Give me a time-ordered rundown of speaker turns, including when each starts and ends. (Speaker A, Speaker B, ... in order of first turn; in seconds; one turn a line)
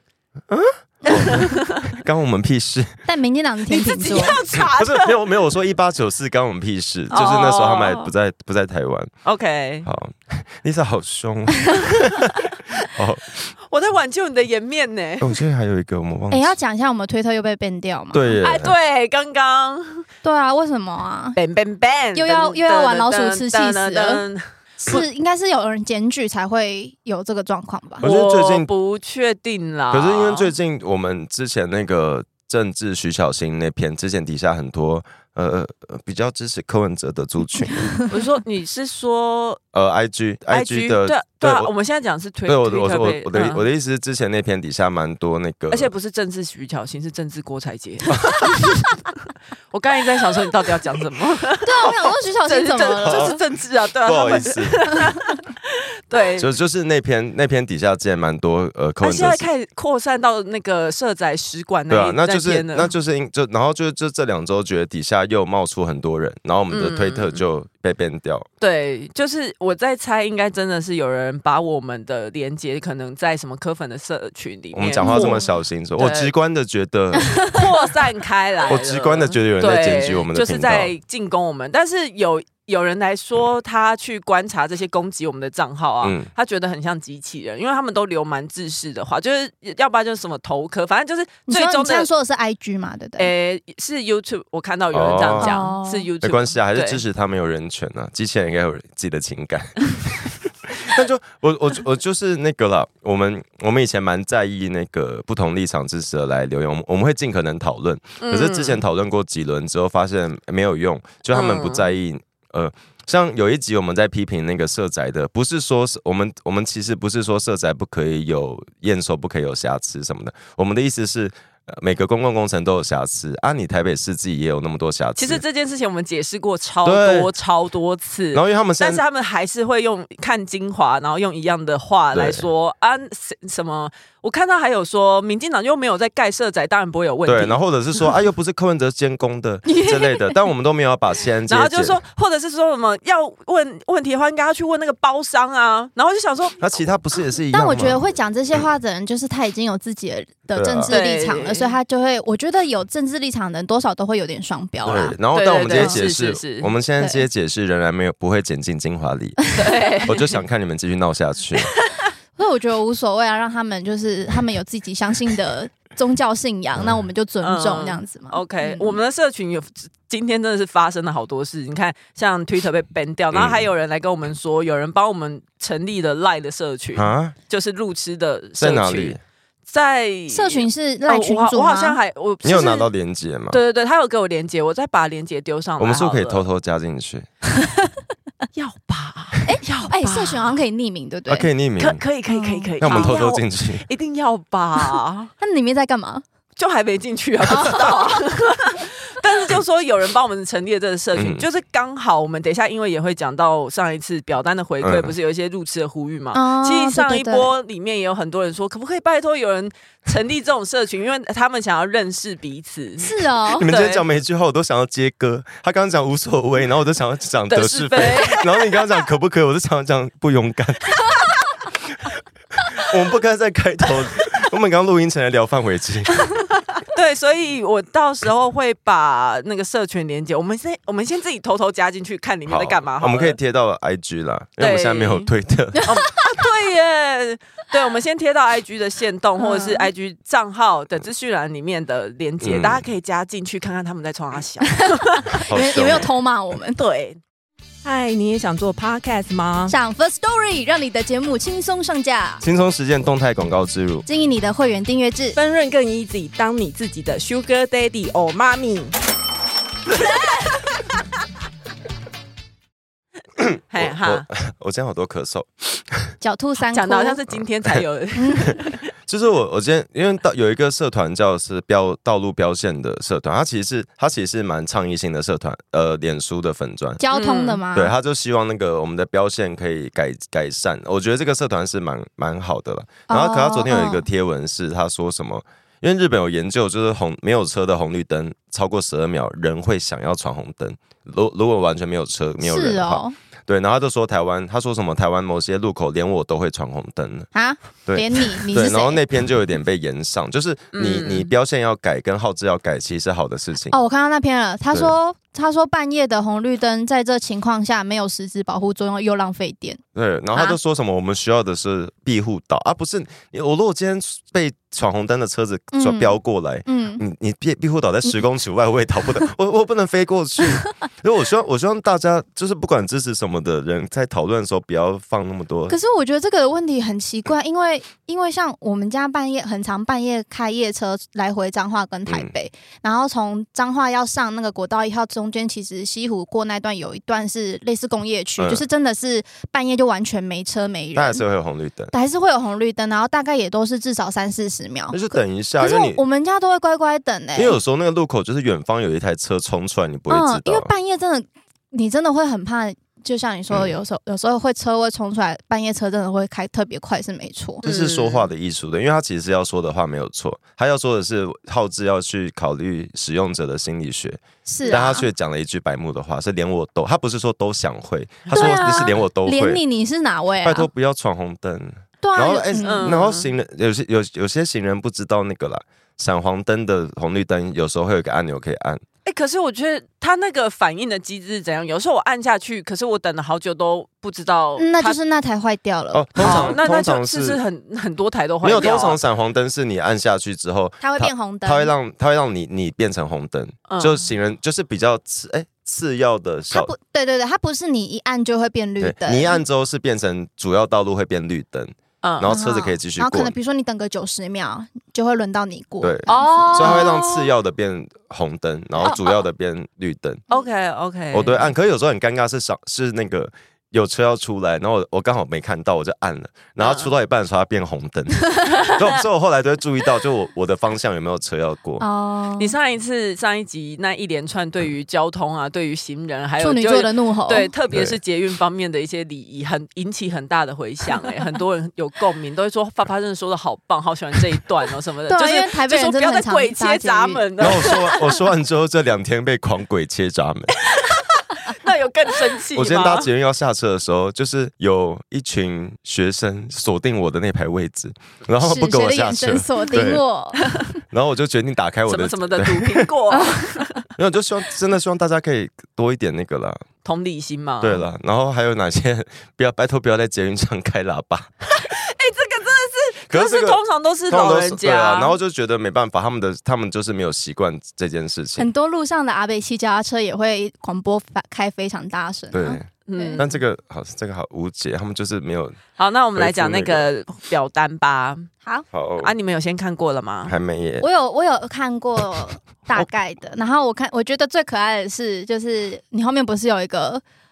Speaker A: 0.5-3.1
Speaker B: 1.1-1.9
Speaker C: 3.1-4.4
Speaker B: 3.7-5.2
Speaker A: 4.6-9.1
Speaker B: 7.1-8.1
Speaker B: 9.2-9.9
Speaker A: 9.8-13.4
Speaker B: 13.7-15.4
Speaker A: 15.2-16.5
Speaker C: 16.3-18.3
Speaker A: 18.1-18.7
Speaker B: 18.4-20.1
Speaker C: 20.2-21.4
Speaker B: 21.4-25.1
Speaker C: 22.1-24.2
Speaker C: 24.9-28.1
Speaker A: 28.0-28.7
Speaker B: 28.0-30.5
Speaker A: 29.9-37.9
Speaker B: 38.1-39.6
Speaker A: 39.7-41.7
Speaker B: 40.5-43.6
Speaker A: 42.5-45.9
Speaker B: 45.7-48.9
Speaker A: 48.1-48.5
Speaker B: 49.7-56.5
Speaker C: 51.6-53.4
Speaker A: 53.0-53.4
Speaker A: 54.0-54.8
Speaker A: 56.4-59.5
Speaker B: 59.0-62.9
Speaker A: 61.9-68.5
Speaker B: 66.7-67.4
Speaker B: 68.6-75.4
Speaker A: 74.7-77.4
Speaker C: 75.0-75.5
Speaker B: 76.0-76.3
Speaker C: 77.2-77.6
Speaker B: 77.4-92.1
Speaker A: 78.7-80.9
Speaker A: 86.0-86.3
Speaker C: 91.5-93.3
Speaker B: 93.2-97.0
Speaker A: 94.9-95.6
Speaker C: 95.4-96.1
Speaker A: 96.2-125.4
Speaker B: 108.2-108.8
Speaker B: 111.3-111.9
Speaker B: 125.2-137.6
Speaker A: 126.8-127.3
Speaker A: 128.3-129.0
Speaker A: 132.1-132.5
Speaker A: 137.3-142.0
Speaker C: 139.7-140.4
Speaker B: 141.5-146.6
Speaker A: 146.6-148.0
Speaker C: 147.5-155.2
Speaker A: 150.6-150.9
Speaker B: 150.9-151.7
Speaker A: 154.8-159.5
Speaker B: 155.3-156.7
Speaker C: 155.7-156.0
Speaker C: 157.0-157.3
Speaker B: 159.6-160.4
Speaker A: 160.0-161.7
Speaker C: 162.4-169.0
Speaker B: 167.4-182.9
Speaker A: 173.3-173.7
Speaker A: 176.9-177.4
Speaker A: 178.6-179.2
Speaker C: 180.3-182.0
Speaker A: 182.4-183.6
Speaker B: 183.5-186.5
Speaker A: 185.8-187.3
Speaker B: 188.6-190.6
Speaker C: 189.4-191.5
Speaker A: 191.3-192.0
Speaker B: 191.8-195.3
Speaker C: 192.3-193.2
Speaker A: 192.8-193.8
Speaker C: 195.4-196.2
Speaker B: 196.6-214.0
Speaker C: 197.5-198.1
Speaker A: 201.1-201.4
Speaker A: 204.8-205.1
Speaker C: 206.3-207.5
Speaker C: 213.0-213.7
Speaker A: 213.6-221.0
Speaker B: 217.5-218.9
Speaker A: 222.8-226.2
Speaker B: 226.9-233.4
Speaker A: 232.5-236.0
Speaker B: 234.6-235.3
Speaker B: 235.9-246.1
Speaker C: 239.4-239.9
Speaker A: 242.4-242.9
Speaker C: 244.8-246.8
Speaker A: 245.4-246.1
Speaker B: 246.8-247.2
Speaker B: 247.8-249.7
Speaker C: 249.7-252.4
Speaker A: 252.4-254.1
Speaker C: 254.1-255.4
Speaker B: 255.4-258.9
Speaker B: 259.9-260.3
Speaker A: 263.4-266.1
Speaker B: 263.7-264.3
Speaker C: 266.2-267.2
Speaker B: 266.6-268.8
Speaker C: 268.1-268.6
Speaker A: 269.1-277.0
Speaker C: 277.0-277.9
Speaker B: 277.1-277.6
Speaker A: 277.7-297.3
Speaker C: 283.1-284.1
Speaker C: 292.4-293.1
Speaker C: 297.3-299.0
Speaker A: 297.9-303.8
Speaker B: 300.7-301.3
Speaker C: 303.7-309.8
Speaker A: 309.9-325.8
Speaker C: 315.7-317.0
Speaker C: 325.7-341.2
Speaker A: 338.4-338.6
Speaker A: 340.9-341.9
Speaker C: 341.9-347.6
Speaker A: 344.9-346.0
Speaker A: 347.4-350.7
Speaker C: 350.1-357.6
Speaker A: 357.6-369.6
Speaker B: 357.6-358.3
Speaker C: 364.4-365.1
Speaker B: 368.3-368.9
Speaker C: 368.3-370.7
Speaker A: 370.4-378.8
Speaker C: 372.0-372.9
Speaker B: 372.6-373.3
Speaker B: 379.1-385.0
Speaker C: 384.6-386.6
Speaker A: 385.9-387.4
Speaker B: 386.2-389.0
Speaker A: 388.4-396.7
Speaker C: 390.8-391.7
Speaker B: 393.7-394.1
Speaker C: 396.5-399.4
Speaker A: 398.8-403.3
Speaker B: 402.0-402.4
Speaker C: 402.3-407.0
Speaker A: 405.8-410.2
Speaker B: 406.1-407.3
Speaker B: 410.3-411.5
Speaker A: 411.1-421.8
Speaker B: 416.6-416.9
Speaker C: 421.8-422.5
Speaker B: 422.4-438.2
Speaker C: 426.4-427.5
Speaker A: 427.7-428.0
Speaker C: 435.1-437.7
Speaker A: 437.4-440.6
Speaker B: 440.6-443.1
Speaker A: 442.5-450.0
Speaker C: 448.4-450.6
Speaker A: 450.9-452.9
Speaker B: 451.9-453.8
Speaker C: 453.1-453.5
Speaker A: 454.0-456.6
Speaker B: 456.8-457.9
Speaker A: 457.6-461.3
Speaker B: 461.5-465.2
Speaker A: 463.1-468.5
Speaker C: 468.4-473.2
Speaker A: 472.3-475.6
Speaker B: 472.9-473.4
Speaker B: 475.8-478.3
Speaker A: 476.1-476.9
Speaker A: 478.7-479.1
Speaker B: 479.0-480.4
Speaker A: 480.3-480.9
Speaker C: 480.8-487.0